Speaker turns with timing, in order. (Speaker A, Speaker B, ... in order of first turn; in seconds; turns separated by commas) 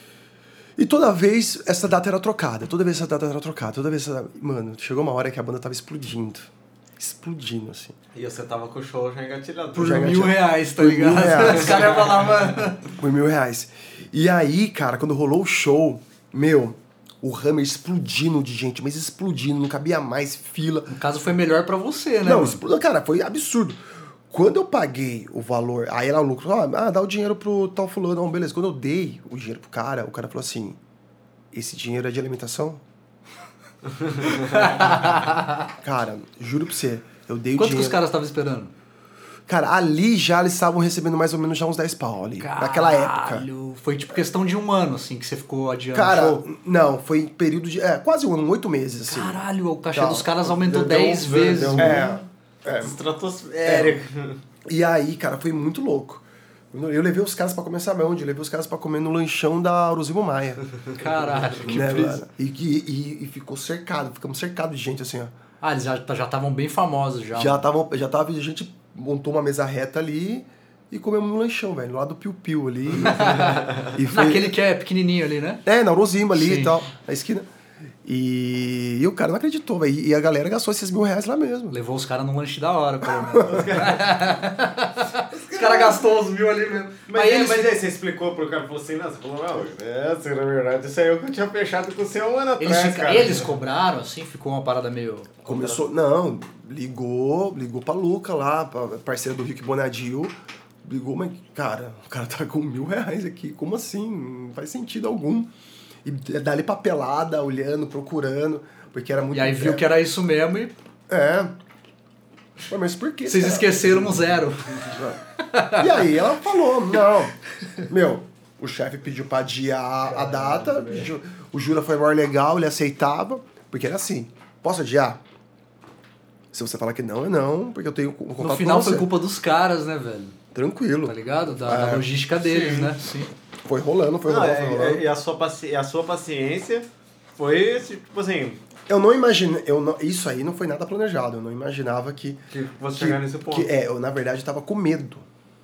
Speaker A: 0.8-8.0, Speaker B: 8.1-10.2, Speaker A: 9.7-20.9, Speaker C: 9.8-12.9, Speaker C: 20.9-22.6, Speaker A: 22.2-30.8, Speaker A: 31.5-32.8, Speaker B: 34.0-34.6, Speaker C: 34.2-35.7, Speaker A: 35.8-38.0, Speaker C: 37.6-38.7, Speaker A: 39.5-43.5, Speaker C: 42.4-46.4, Speaker A: 45.9-53.0, Speaker C: 49.1-52.2, Speaker B: 50.7-54.4, Speaker A: 53.6-54.0, Speaker A: 54.7-60.6, Speaker C: 61.0-62.2, Speaker B: 61.2-61.6, Speaker A: 61.6-65.3, Speaker C: 65.6-67.7, Speaker A: 67.3-74.5, Speaker C: 73.0-75.6, Speaker A: 75.7-77.5, Speaker C: 76.3-76.8, Speaker A: 78.0-81.8, Speaker C: 81.7-87.8, Speaker A: 83.3-83.7, Speaker B: 83.4-84.1, Speaker B: 85.3-86.1, Speaker B: 87.0-93.6, Speaker C: 92.6-95.4, Speaker B: 95.5-95.8, Speaker A: 95.5-105.5, Speaker A: 106.0-109.8, Speaker C: 109.3-110.8, Speaker A: 111.1-111.5, Speaker A: 112.7-114.0, Speaker C: 113.3-116.1, Speaker A: 115.8-125.2, Speaker B: 120.2-121.1, Speaker A: 126.5-129.1, Speaker C: 128.4-130.4, Speaker A: 130.5-132.1, Speaker C: 131.1-133.3, Speaker B: 132.4-133.0, Speaker A: 133.7-135.1, Speaker B: 134.3-138.6, Speaker A: 138.9-145.2, Speaker B: 142.5-143.8